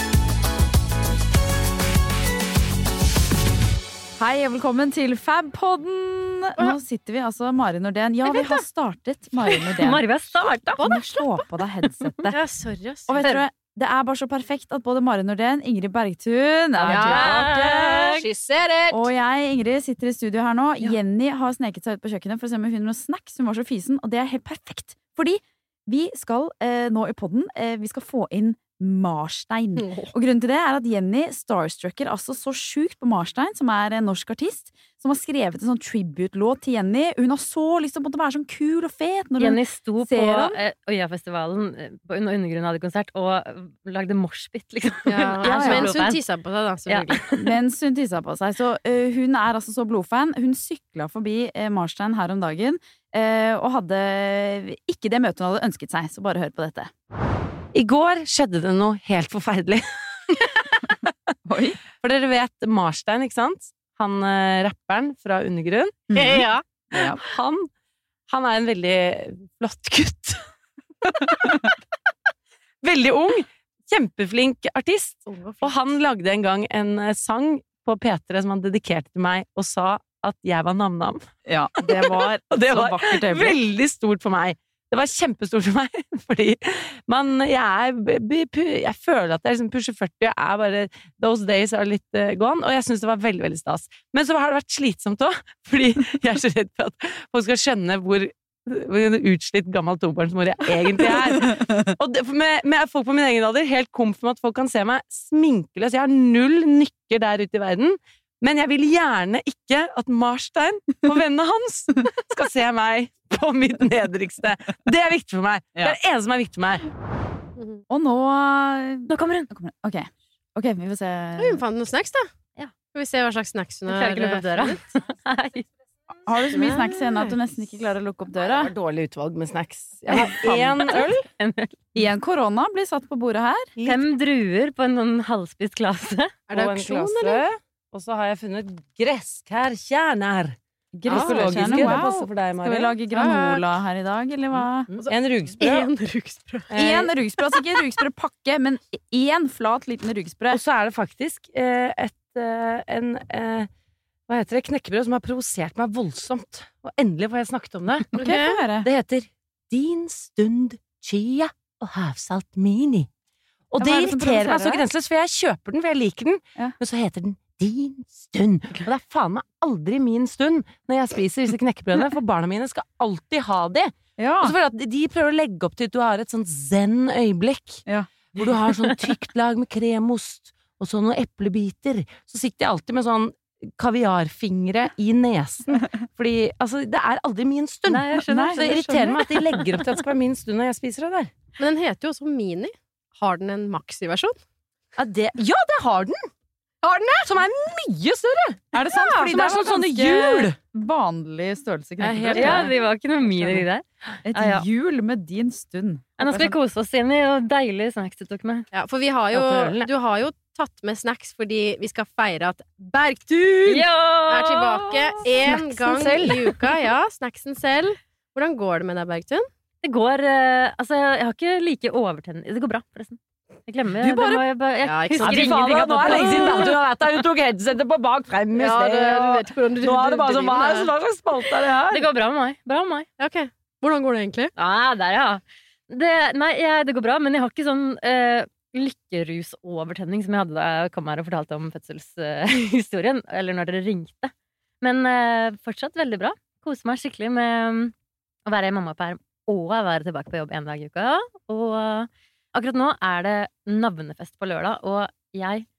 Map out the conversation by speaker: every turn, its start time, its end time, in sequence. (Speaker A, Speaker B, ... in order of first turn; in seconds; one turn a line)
Speaker A: 4.2-12.4
Speaker B: 8.3-8.6
Speaker B: 9.4-10.9
Speaker C: 10.8-11.4
Speaker B: 12.0-12.3
Speaker C: 12.3-13.3
Speaker A: 13.1-17.6
Speaker D: 16.8-18.9
Speaker C: 16.9-18.2
Speaker B: 17.5-18.0
Speaker A: 18.9-40.6
Speaker C: 29.8-30.1
Speaker B: 39.4-46.2
Speaker C: 45.0-47.2
Speaker A: 45.4-45.9
Speaker B: 46.9-47.5
Speaker A: 47.4-56.9
Speaker D: 57.7-60.6
Speaker A: 61.4-61.8
Speaker D: 62.0-66.4
Speaker A: 66.1-67.2
Speaker C: 66.1-66.6
Speaker D: 66.9-67.7
Speaker D: 68.3-70.4
Speaker D: 71.0-71.6
Speaker D: 72.8-81.2
Speaker C: 75.3-75.7
Speaker A: 81.5-83.6
Speaker D: 81.8-116.9
Speaker C: 117.6-117.8
Speaker A: 117.9-121.6
Speaker B: 119.1-119.5
Speaker C: 121.4-122.3
Speaker C: 122.9-124.9
Speaker B: 123.9-125.7
Speaker A: 126.2-128.7
Speaker D: 128.4-131.2
Speaker A: 130.1-131.1
Speaker B: 130.9-131.9
Speaker A: 131.9-133.7
Speaker D: 133.8-134.0
Speaker B: 133.8-136.3
Speaker C: 136.5-137.4
Speaker D: 136.5-142.9
Speaker A: 140.9-144.9
Speaker C: 141.1-142.0
Speaker C: 143.1-143.6
Speaker D: 144.9-145.9
Speaker C: 145.6-146.7
Speaker D: 146.7-147.1
Speaker A: 146.7-150.6
Speaker D: 150.5-153.7
Speaker D: 154.3-158.2
Speaker C: 158.1-158.6
Speaker A: 158.2-158.9
Speaker D: 158.8-163.1
Speaker D: 163.7-191.3
Speaker A: 163.8-164.8
Speaker A: 174.2-174.5
Speaker B: 187.9-189.6
Speaker A: 188.3-189.2
Speaker C: 191.6-194.4
Speaker D: 195.0-196.3
Speaker C: 196.8-197.3
Speaker D: 197.2-200.6
Speaker A: 198.7-202.7
Speaker D: 202.0-202.7
Speaker B: 202.3-204.7
Speaker D: 203.3-203.6
Speaker A: 204.2-206.6
Speaker B: 206.2-208.7
Speaker C: 208.7-219.4
Speaker D: 209.3-209.9
Speaker B: 213.7-216.4
Speaker D: 215.4-216.5
Speaker B: 219.8-226.8
Speaker D: 224.0-224.4
Speaker C: 224.8-226.7
Speaker D: 225.2-232.1
Speaker C: 228.5-230.9
Speaker B: 231.9-233.1
Speaker C: 233.2-234.5
Speaker B: 234.6-247.9
Speaker B: 248.4-255.7